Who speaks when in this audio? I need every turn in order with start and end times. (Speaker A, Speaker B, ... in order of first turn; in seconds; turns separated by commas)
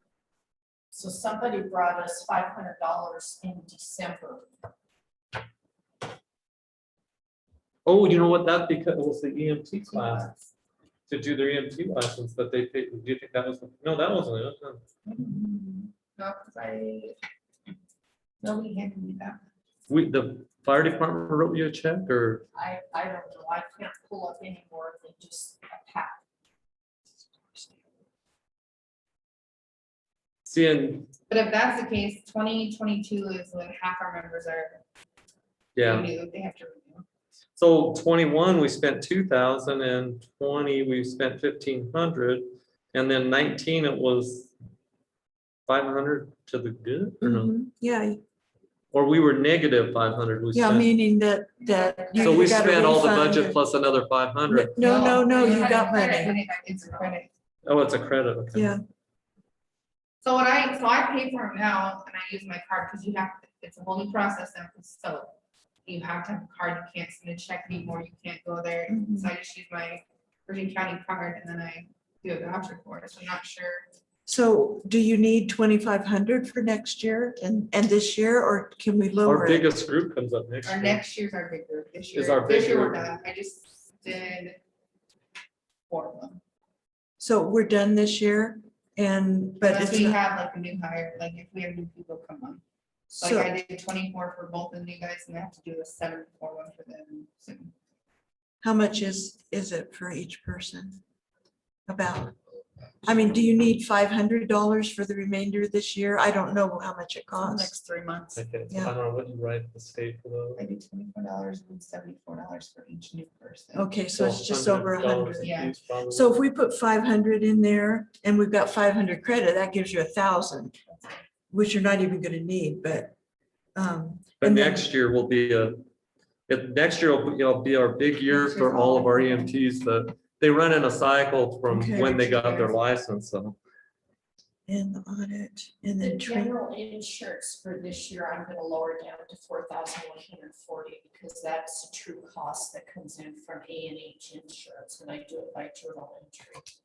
Speaker A: 0.9-4.5, Speaker B: 7.9-10.3, Speaker B: 11.1-14.8, Speaker C: 15.1-17.2, Speaker C: 18.4-19.4, Speaker B: 19.9-22.4, Speaker A: 22.5-26.2, Speaker B: 30.5-31.1, Speaker C: 31.3-34.8, Speaker B: 35.8-36.1, Speaker C: 35.8-37.0, Speaker B: 37.6-44.5, Speaker B: 45.7-47.5, Speaker D: 47.2-48.2, Speaker B: 48.9-50.9, Speaker D: 50.5-53.6, Speaker B: 52.2-54.8, Speaker D: 54.5-56.4, Speaker C: 54.8-57.3, Speaker B: 57.6-58.8, Speaker D: 58.5-58.8, Speaker C: 60.2-65.3, Speaker C: 65.8-73.9, Speaker D: 68.9-69.3, Speaker D: 74.3-79.7, Speaker B: 79.2-81.0, Speaker C: 80.7-84.6, Speaker B: 82.1-83.2, Speaker C: 85.9-86.4, Speaker D: 87.2-90.2, Speaker C: 89.7-92.6, Speaker D: 93.1-93.5, Speaker C: 93.2-97.7, Speaker D: 98.6-101.0, Speaker D: 101.9-102.3, Speaker D: 103.0-107.7, Speaker C: 107.4-107.7, Speaker A: 107.7-108.3, Speaker B: 108.3-110.7, Speaker C: 110.6-113.9, Speaker D: 113.7-120.8, Speaker B: 114.1-116.3, Speaker C: 115.4-115.7, Speaker C: 120.9-121.1, Speaker D: 121.5-123.2, Speaker D: 123.8-124.8, Speaker B: 124.4-125.8, Speaker B: 126.5-133.6, Speaker D: 131.7-132.8, Speaker D: 134.7-136.6, Speaker A: 136.0-146.7